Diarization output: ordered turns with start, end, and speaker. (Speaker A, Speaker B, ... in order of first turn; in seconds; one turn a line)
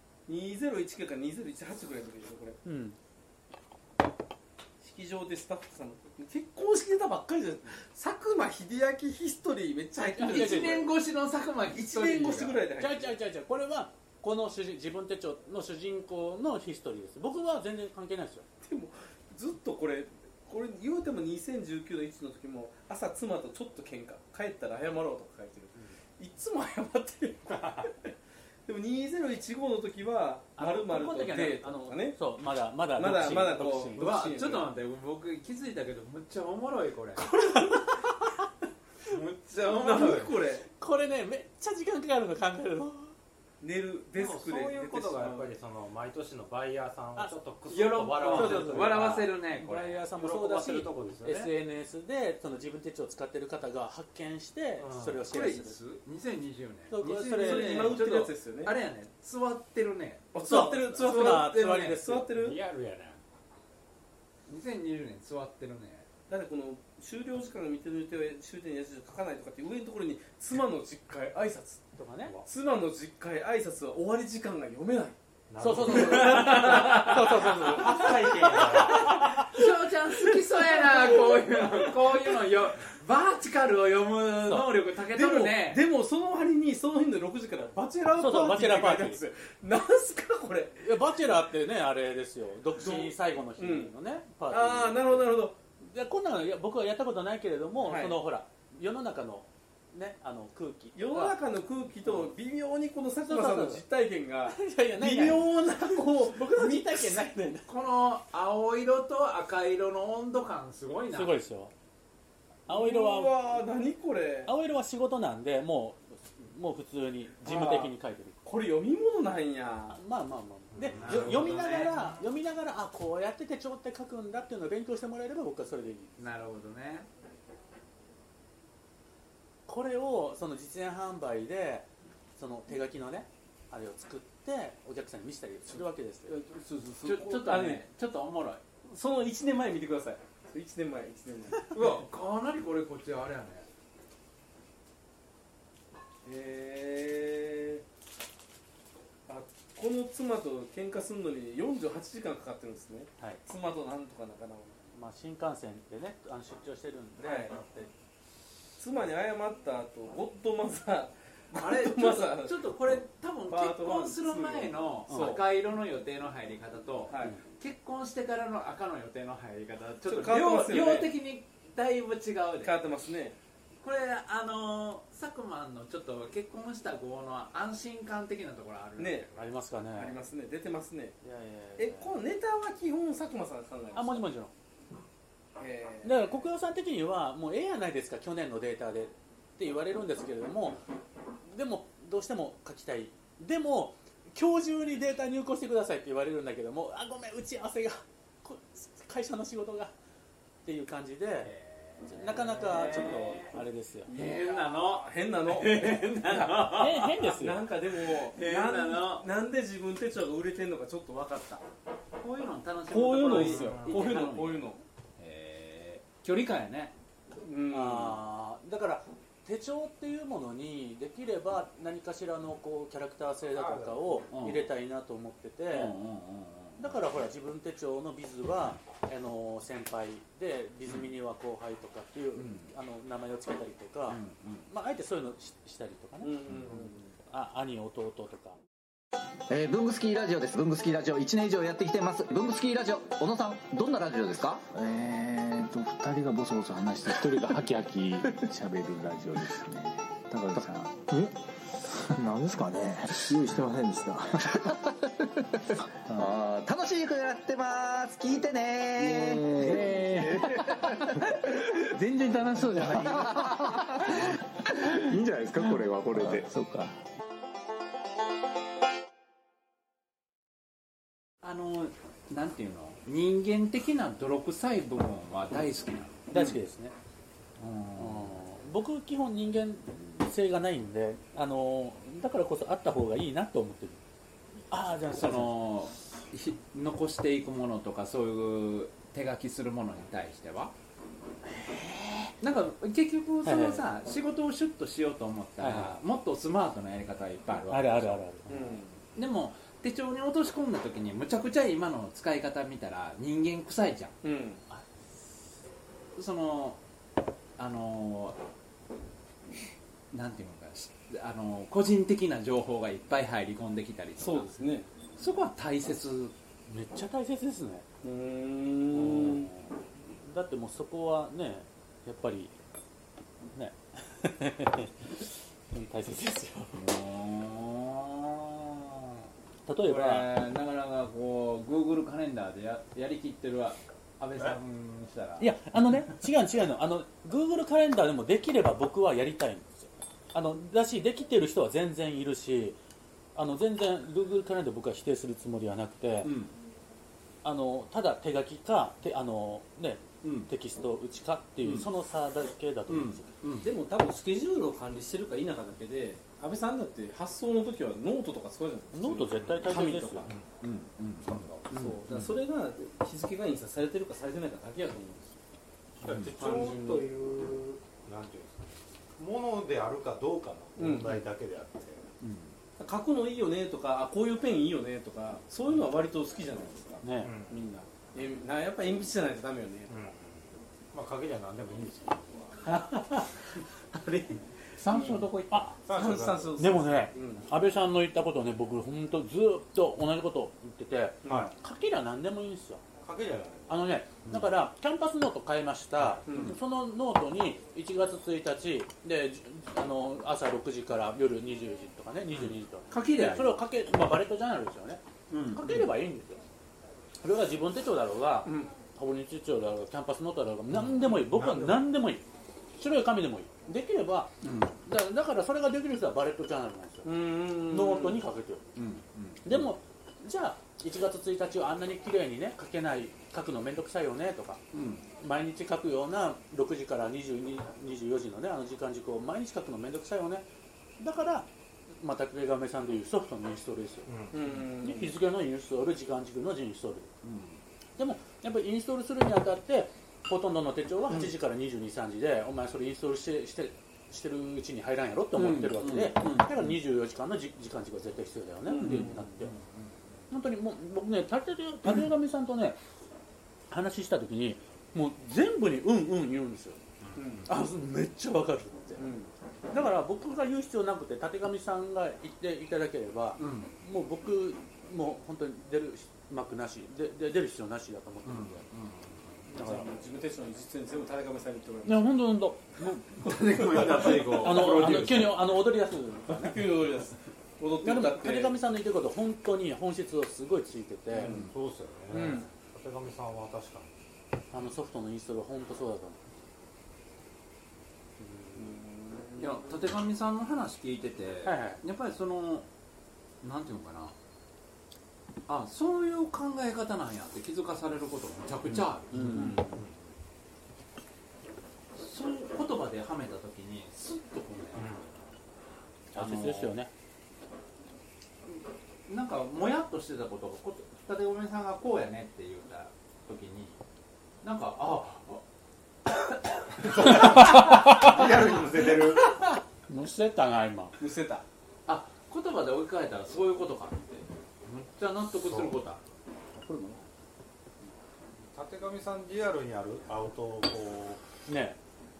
Speaker A: 0.3-2.6
Speaker B: 2.6-3.0
Speaker A: 4.8-10.9
Speaker B: 10.1-10.9
Speaker C: 10.1-12.6
Speaker A: 11.7-13.1
Speaker B: 12.7-18.4
Speaker A: 18.6-28.1
Speaker A: 28.7-32.2
Speaker B: 30.6-34.2
Speaker A: 32.9-34.7
Speaker C: 33.9-37.3
Speaker A: 37.3-37.8
Speaker B: 37.5-38.0
Speaker D: 39.1-40.3
Speaker A: 39.5-40.6
Speaker B: 39.6-43.1
Speaker A: 43.6-45.5
Speaker D: 44.1-49.2
Speaker B: 47.1-47.4
Speaker C: 47.7-50.0
Speaker B: 48.1-55.8
Speaker D: 50.1-51.5
Speaker D: 54.8-55.2
Speaker C: 55.2-60.3
Speaker B: 56.9-58.0
Speaker A: 57.2-58.7
Speaker A: 60.3-62.6
Speaker B: 60.4-62.3
Speaker D: 62.3-63.2
Speaker C: 64.5-66.1
Speaker A: 66.3-71.8
Speaker B: 71.9-72.3
Speaker A: 72.5-75.2
Speaker D: 75.5-76.5
Speaker B: 75.6-79.5
Speaker A: 75.8-79.4
Speaker C: 75.8-85.8
Speaker D: 77.5-79.2
Speaker A: 80.3-82.1
Speaker B: 84.4-84.7
Speaker A: 85.0-90.9
Speaker B: 88.1-89.2
Speaker B: 90.8-101.4
Speaker A: 92.7-93.9
Speaker A: 94.5-95.6
Speaker A: 97.8-98.2
Speaker A: 100.9-107.2
Speaker B: 103.2-103.8
Speaker B: 104.5-107.7
Speaker C: 107.6-111.3
Speaker B: 111.1-111.7
Speaker B: 112.7-113.3
Speaker A: 112.7-114.5
Speaker B: 114.5-118.4
Speaker A: 117.4-117.9
Speaker A: 118.4-120.0
Speaker B: 119.9-126.1
Speaker D: 120.7-121.5
Speaker C: 121.0-122.2
Speaker C: 126.2-127.1
Speaker B: 129.7-136.3
Speaker A: 135.7-137.8
Speaker C: 137.0-138.6
Speaker A: 138.9-142.0
Speaker C: 141.7-143.7
Speaker A: 146.2-147.8
Speaker A: 149.3-154.8
Speaker B: 154.9-157.9
Speaker A: 157.2-157.5
Speaker A: 158.8-162.6
Speaker C: 161.5-172.7
Speaker A: 163.5-165.4
Speaker B: 165.1-165.4
Speaker A: 167.1-167.4
Speaker A: 170.0-171.1
Speaker A: 172.6-173.3
Speaker C: 173.8-179.3
Speaker A: 179.0-179.3
Speaker B: 179.3-180.2
Speaker A: 179.9-181.2
Speaker B: 181.2-182.1
Speaker A: 181.8-184.3
Speaker B: 183.9-184.5
Speaker A: 185.6-186.4
Speaker B: 186.0-190.8
Speaker B: 191.5-199.9
Speaker B: 200.6-201.5
Speaker C: 201.4-203.5
Speaker B: 202.0-204.1
Speaker A: 204.1-211.6
Speaker C: 204.1-207.3
Speaker B: 206.7-207.6
Speaker C: 208.0-209.3
Speaker C: 212.2-216.9
Speaker A: 212.9-214.8
Speaker D: 213.4-214.0
Speaker A: 217.4-218.2
Speaker B: 217.7-226.0
Speaker D: 223.5-224.3
Speaker C: 224.3-224.7
Speaker C: 225.7-227.0
Speaker B: 226.8-238.6
Speaker C: 230.8-231.1
Speaker C: 232.3-232.7
Speaker C: 234.1-234.7
Speaker A: 236.2-237.1
Speaker E: 239.5-244.9
Speaker F: 244.9-251.3
Speaker E: 247.0-248.5
Speaker F: 251.9-254.4
Speaker E: 253.2-253.5
Speaker E: 254.4-261.8
Speaker F: 259.2-260.3
Speaker C: 259.6-260.4
Speaker C: 262.1-263.3
Speaker F: 262.2-263.4
Speaker E: 262.8-266.4
Speaker F: 265.1-266.9
Speaker C: 271.4-276.6
Speaker B: 276.3-276.9
Speaker C: 277.6-278.4
Speaker B: 278.0-284.0
Speaker B: 284.7-285.6
Speaker C: 285.1-290.7
Speaker B: 291.5-292.3
Speaker C: 292.4-298.2
Speaker B: 293.4-293.9
Speaker B: 295.6-296.0
Speaker B: 297.7-298.8
Speaker A: 298.5-299.0
Speaker C: 299.1-304.1
Speaker A: 304.2-304.6
Speaker C: 306.1-306.8
Speaker C: 307.6-308.4
Speaker C: 310.1-314.6
Speaker A: 314.2-314.9
Speaker C: 315.2-316.3
Speaker B: 316.7-317.9
Speaker A: 318.0-319.5
Speaker B: 318.9-322.5
Speaker B: 323.5-326.8
Speaker C: 326.7-329.1
Speaker B: 329.6-330.3
Speaker C: 329.8-335.5
Speaker B: 335.4-342.8
Speaker B: 343.3-346.4
Speaker C: 346.2-346.6
Speaker B: 347.4-353.4
Speaker C: 350.2-350.5
Speaker C: 351.6-351.9
Speaker C: 352.9-353.7
Speaker A: 353.6-360.3
Speaker B: 358.9-360.3
Speaker C: 360.6-362.3
Speaker D: 361.3-361.6
Speaker A: 361.7-365.3
Speaker D: 366.0-372.1
Speaker C: 366.0-366.4
Speaker A: 366.4-367.1
Speaker A: 370.8-371.2
Speaker C: 372.2-372.5
Speaker A: 372.8-380.0
Speaker B: 377.0-377.3
Speaker D: 377.2-377.5
Speaker D: 379.9-382.6
Speaker C: 382.7-383.4
Speaker C: 383.9-385.6
Speaker A: 384.9-385.3
Speaker B: 385.5-385.8
Speaker D: 385.9-386.6
Speaker A: 385.9-387.4
Speaker B: 386.6-392.8
Speaker D: 391.3-391.5
Speaker D: 393.0-393.9
Speaker B: 393.7-406.4
Speaker A: 396.2-396.6
Speaker C: 402.4-403.6
Speaker C: 405.3-405.9
Speaker B: 407.2-412.2
Speaker A: 408.4-408.7
Speaker D: 411.0-411.9
Speaker B: 412.8-417.1
Speaker C: 414.4-414.8
Speaker A: 417.0-418.2
Speaker B: 417.7-418.6
Speaker C: 418.8-419.7
Speaker B: 419.4-430.4
Speaker C: 424.7-425.1
Speaker B: 431.0-434.1
Speaker D: 434.1-434.5
Speaker A: 434.3-435.1
Speaker B: 434.8-437.1
Speaker C: 437.2-437.6
Speaker B: 438.0-449.5
Speaker C: 445.3-446.7
Speaker A: 448.7-449.4
Speaker C: 448.8-449.9
Speaker B: 450.3-452.8
Speaker B: 453.7-456.8
Speaker A: 457.1-457.5
Speaker B: 457.4-459.0
Speaker A: 459.0-459.3
Speaker B: 459.7-468.6
Speaker C: 463.4-463.7
Speaker C: 468.2-469.4
Speaker B: 469.5-469.9
Speaker A: 469.5-472.2
Speaker B: 471.8-476.7
Speaker C: 472.9-475.4
Speaker A: 473.4-475.2
Speaker A: 476.3-478.6
Speaker B: 477.8-481.4
Speaker A: 481.1-481.5
Speaker C: 481.2-481.5
Speaker D: 481.3-483.9
Speaker B: 482.1-482.4
Speaker A: 482.2-482.4
Speaker B: 484.5-486.3
Speaker B: 488.2-488.8
Speaker A: 488.5-489.7
Speaker C: 489.4-492.7
Speaker B: 491.4-491.8
Speaker C: 493.4-494.1
Speaker C: 495.5-499.8
Speaker B: 498.6-499.6
Speaker D: 499.6-500.1
Speaker C: 501.9-504.9
Speaker D: 504.7-505.1
Speaker C: 506.1-506.7
Speaker B: 506.1-506.9
Speaker C: 508.5-513.8
Speaker C: 514.4-515.4
Speaker C: 516.7-517.3
Speaker B: 516.8-520.9
Speaker D: 516.9-519.2
Speaker A: 521.0-521.4
Speaker C: 521.9-526.0
Speaker D: 525.4-525.8
Speaker B: 526.6-527.0
Speaker D: 528.5-531.2
Speaker B: 531.5-531.8